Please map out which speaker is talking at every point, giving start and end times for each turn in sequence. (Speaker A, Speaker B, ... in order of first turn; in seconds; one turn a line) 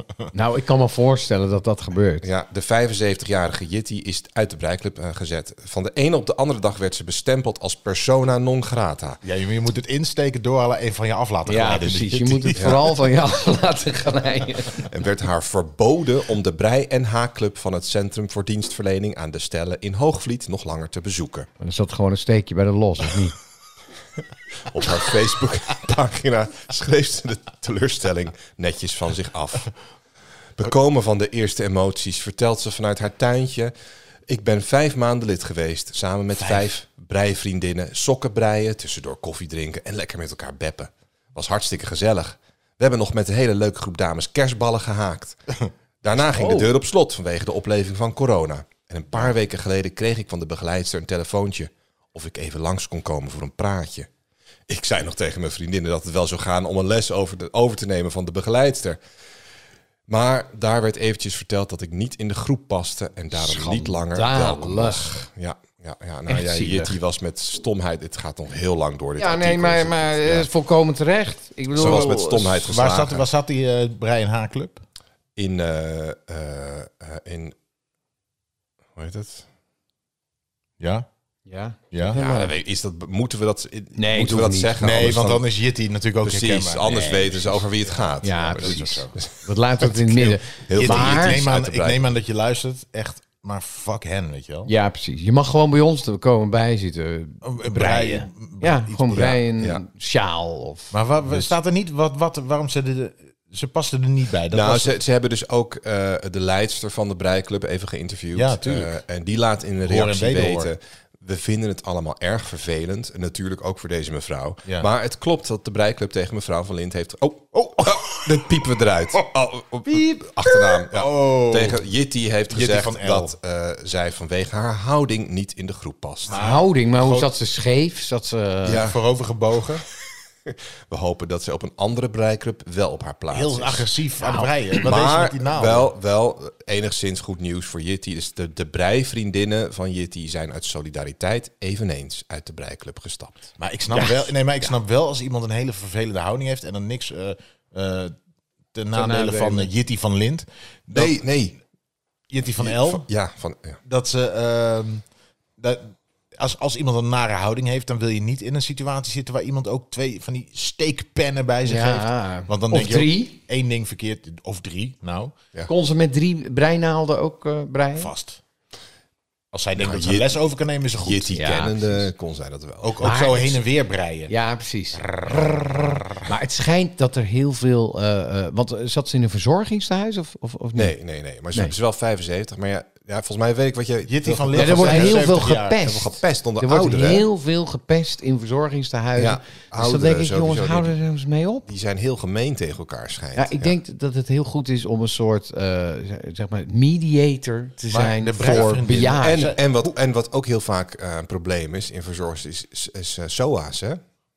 Speaker A: 0.3-2.3
Speaker B: 2.2-9.2
Speaker C: 9.2-12.8
Speaker A: 11.4-14.8
Speaker B: 12.6-12.8
Speaker B: 14.8-21.5
Speaker A: 21.6-23.3
Speaker B: 24.6-29.7
Speaker B: 30.6-33.7
Speaker B: 34.3-45.5
Speaker B: 46.0-54.1
Speaker A: 46.4-46.6
Speaker B: 54.7-59.0
Speaker B: 60.1-70.5
Speaker A: 63.3-65.2
Speaker A: 66.3-67.0
Speaker A: 69.2-72.7
Speaker B: 71.7-73.2
Speaker C: 71.8-72.1
Speaker C: 72.6-74.8
Speaker B: 75.3-77.5
Speaker B: 78.9-79.5
Speaker C: 80.8-81.0
Speaker A: 81.5-82.5
Speaker C: 81.9-82.2
Speaker B: 82.1-85.4
Speaker A: 83.9-85.1
Speaker C: 84.8-87.6
Speaker B: 86.2-92.1
Speaker A: 86.9-87.5
Speaker A: 88.2-91.4
Speaker C: 88.4-89.1
Speaker C: 90.8-94.7
Speaker A: 94.7-101.5
Speaker C: 97.4-99.4
Speaker C: 100.9-105.0
Speaker B: 104.5-126.4
Speaker C: 108.3-108.9
Speaker C: 109.8-110.7
Speaker C: 117.5-118.6
Speaker C: 120.7-121.8
Speaker C: 122.5-123.3
Speaker C: 126.3-127.3
Speaker A: 126.3-128.8
Speaker B: 128.6-129.0
Speaker C: 128.7-129.8
Speaker B: 130.4-133.9
Speaker C: 133.3-135.9
Speaker A: 134.2-134.8
Speaker B: 134.8-143.5
Speaker C: 143.6-148.1
Speaker A: 143.9-144.3
Speaker C: 148.7-151.2
Speaker A: 148.9-149.7
Speaker B: 150.9-151.6
Speaker C: 152.3-153.1
Speaker B: 152.6-153.8
Speaker C: 153.8-155.0
Speaker C: 155.6-165.3
Speaker A: 161.6-163.4
Speaker A: 165.7-168.1
Speaker C: 168.0-168.4
Speaker C: 169.5-171.5
Speaker B: 169.8-170.3
Speaker B: 170.9-173.1
Speaker A: 171.3-172.0
Speaker C: 172.8-174.3
Speaker A: 173.0-173.6
Speaker A: 174.3-180.9
Speaker C: 174.9-176.3
Speaker B: 180.7-187.2
Speaker C: 184.1-185.8
Speaker A: 184.5-191.7
Speaker B: 189.2-190.9
Speaker B: 191.7-193.7
Speaker A: 193.3-199.5
Speaker C: 197.9-199.7
Speaker B: 198.9-204.0